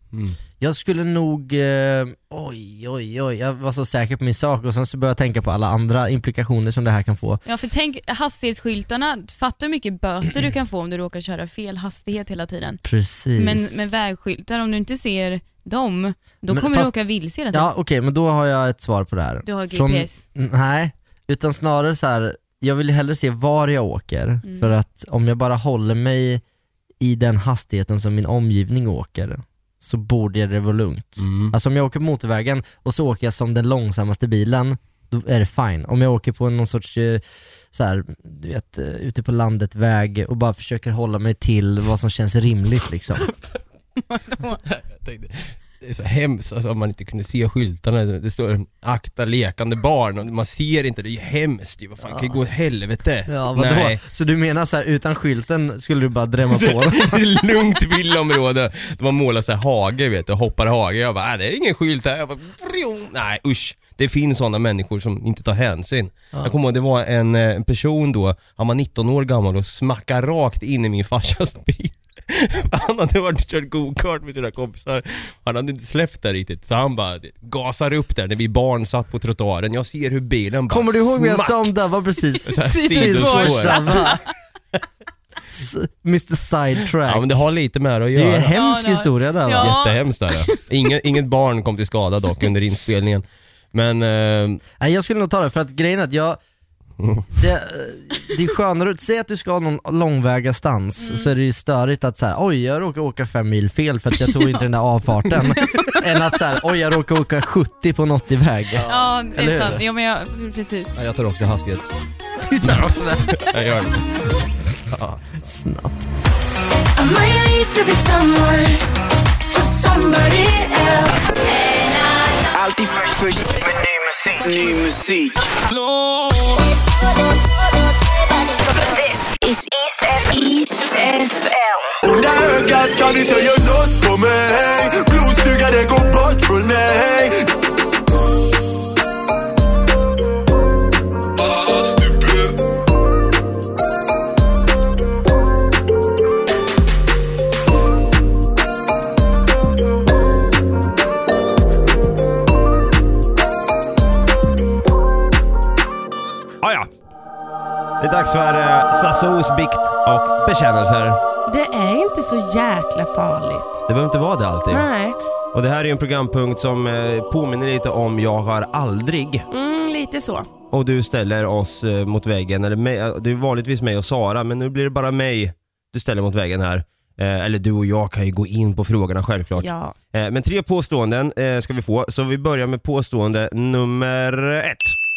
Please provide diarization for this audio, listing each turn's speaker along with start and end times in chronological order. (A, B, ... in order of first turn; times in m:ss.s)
0:00.6-0:07.4 A
0:07.5-0:12.8 B
0:12.8-0:13.9 A
0:13.4-0:17.7 B
0:16.5-0:16.9 A
0:17.5-0:26.4 A
0:19.4-0:20.2 B
0:24.4-0:24.7 B
0:27.0-0:43.3 A
0:31.2-0:31.5 C
0:44.1-0:44.6 B
0:44.7-0:54.0 C
0:52.1-0:52.4 A
0:53.3-0:57.2 A
0:56.5-1:21.7 C
1:20.7-1:24.2 A
1:22.5-1:24.1 C
1:22.6-1:24.2 B
1:25.5-1:27.2 A
1:27.1-1:28.5 C
1:28.1-1:29.8 A
1:28.5-1:30.6 B
1:29.6-1:34.6 C
1:34.8-1:36.4 A
1:37.0-1:37.3 C
1:37.3-1:49.8 A
1:41.0-1:41.3 B
1:45.6-1:46.0 B
1:48.8-1:50.9 B
1:51.0-1:52.0 C
1:52.4-1:53.4 A
1:52.6-1:54.1 C
1:55.3-1:56.2 A
1:57.0-1:58.8 D
1:59.5-2:01.2 D
2:02.5-2:05.5 E
2:08.6-2:11.9 D
2:12.0-2:17.4 F
2:21.4-2:22.6 F
2:36.6-2:36.9 C
2:38.0-2:41.2 C
2:41.5-2:43.8 G
2:43.9-2:44.9 C
2:44.7-2:45.2 G
2:45.5-2:49.5 C
2:49.5-2:50.5 G
2:50.7-3:05.0 C
2:59.6-3:00.0 G